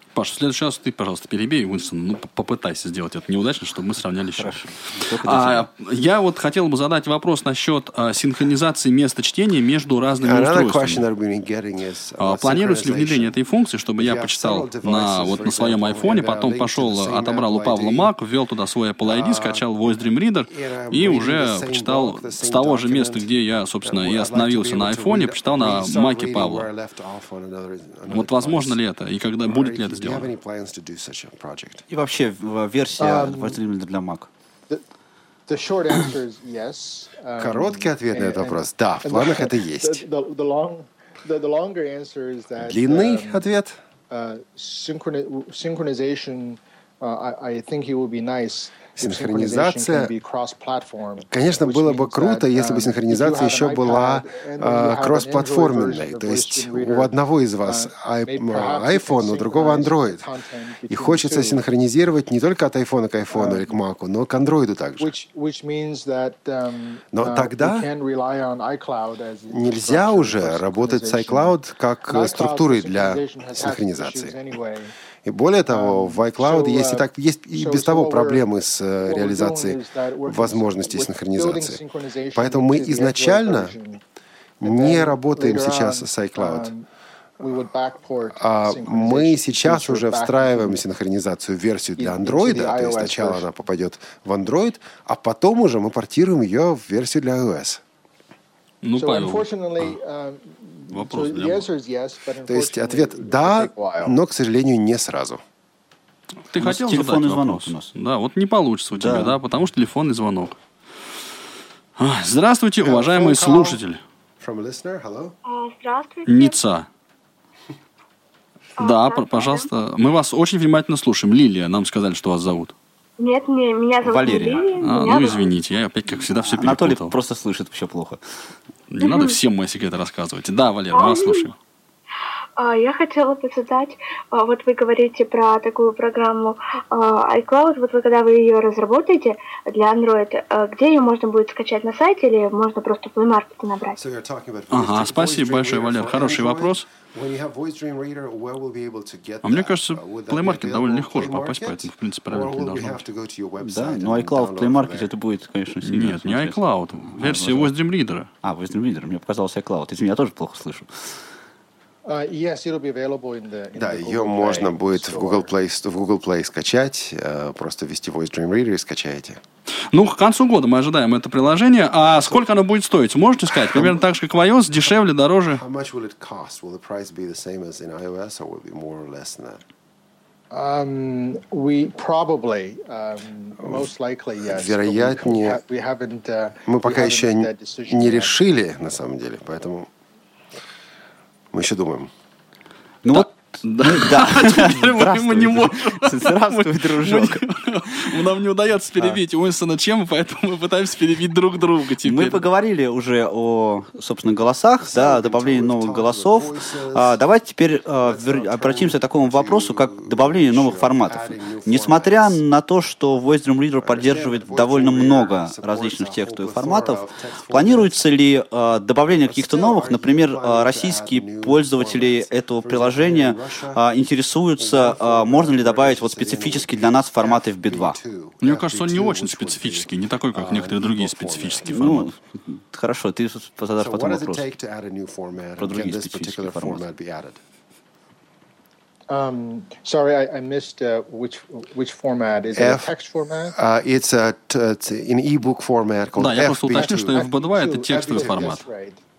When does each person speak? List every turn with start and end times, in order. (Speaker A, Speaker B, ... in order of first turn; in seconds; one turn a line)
Speaker A: 0.1-11.1
Speaker B: 4.4-5.7
Speaker C: 10.2-13.3
Speaker A: 12.2-26.7
Speaker C: 14.0-18.1
Speaker C: 19.0-19.7
Speaker C: 20.5-23.3
Speaker C: 23.8-28.8
Speaker A: 28.1-30.3
Speaker C: 29.5-31.9
Speaker B: 31.9-34.3
Speaker D: 33.0-33.6
Speaker D: 35.5-43.5
Speaker C: 37.4-40.0
Speaker C: 42.6-43.8
Speaker D: 44.1-57.1
Speaker C: 49.0-50.1
Speaker C: 51.3-60.3
Speaker D: 57.6-61.6
Speaker C: 60.9-65.1
Speaker D: 63.3-63.7
Speaker D: 65.0-71.5
Speaker C: 67.1-67.9
Speaker C: 69.5-74.4
Speaker D: 72.1-74.9
Speaker C: 75.2-81.8
Speaker D: 75.7-78.5
Speaker D: 79.0-84.0
Speaker C: 82.3-83.7
Speaker C: 84.6-86.7
Speaker D: 84.6-86.9
Speaker D: 87.4-90.8
Speaker C: 88.3-97.8
Speaker D: 92.0-93.5
Speaker A: 98.8-100.0
Speaker D: 99.0-104.2
Speaker A: 100.9-101.7
Speaker C: 102.5-105.4
Speaker A: 106.5-110.6
Speaker B: 106.5-107.9
Speaker B: 108.9-109.4
Speaker A: 112.0-114.0
Speaker D: 112.8-113.8
Speaker C: 114.4-115.3
Speaker E: 115.5-116.6
Speaker A: 116.3-116.9
Speaker E: 118.8-119.7
Speaker A: 118.8-122.7
Speaker E: 123.2-125.5
Speaker B: 124.0-124.7
Speaker A: 124.8-127.2
Speaker B: 126.4-128.2
Speaker A: 128.9-131.6
Speaker E: 129.0-129.4
Speaker E: 130.9-131.5
Speaker E: 132.6-144.0
Speaker C: 144.0-155.1
Speaker A: 144.7-146.8
Speaker A: 149.4-153.0
Speaker B: 153.6-157.7
Speaker A: 155.8-158.3
Speaker B: 158.4-160.9
Speaker D: 162.1-165.5
Speaker C: 163.8-169.4
Speaker A: 169.9-175.6
Speaker C: 173.6-174.0
Speaker C: 175.5-179.6
Speaker D: 180.5-188.3
Speaker C: 183.6-183.9
Speaker C: 184.4-185.6
Speaker C: 186.7-189.9
Speaker C: 191.5-192.1
Speaker B: 193.0-198.2
Speaker A: 193.1-202.4
Speaker B: 202.0-228.0
Speaker C: 204.8-207.2
Speaker C: 208.0-212.4
Speaker C: 213.8-218.1
Speaker C: 219.2-223.8
Speaker C: 224.6-231.7
Speaker A: 228.4-232.1
Speaker B: 231.6-234.5
Speaker C: 233.8-237.4
Speaker B: 235.6-236.8
Speaker D: 239.1-243.6
Speaker C: 242.6-242.9
Speaker C: 243.6-247.3
Speaker A: 246.2-248.6
Speaker D: 246.7-249.0
Speaker C: 247.9-248.6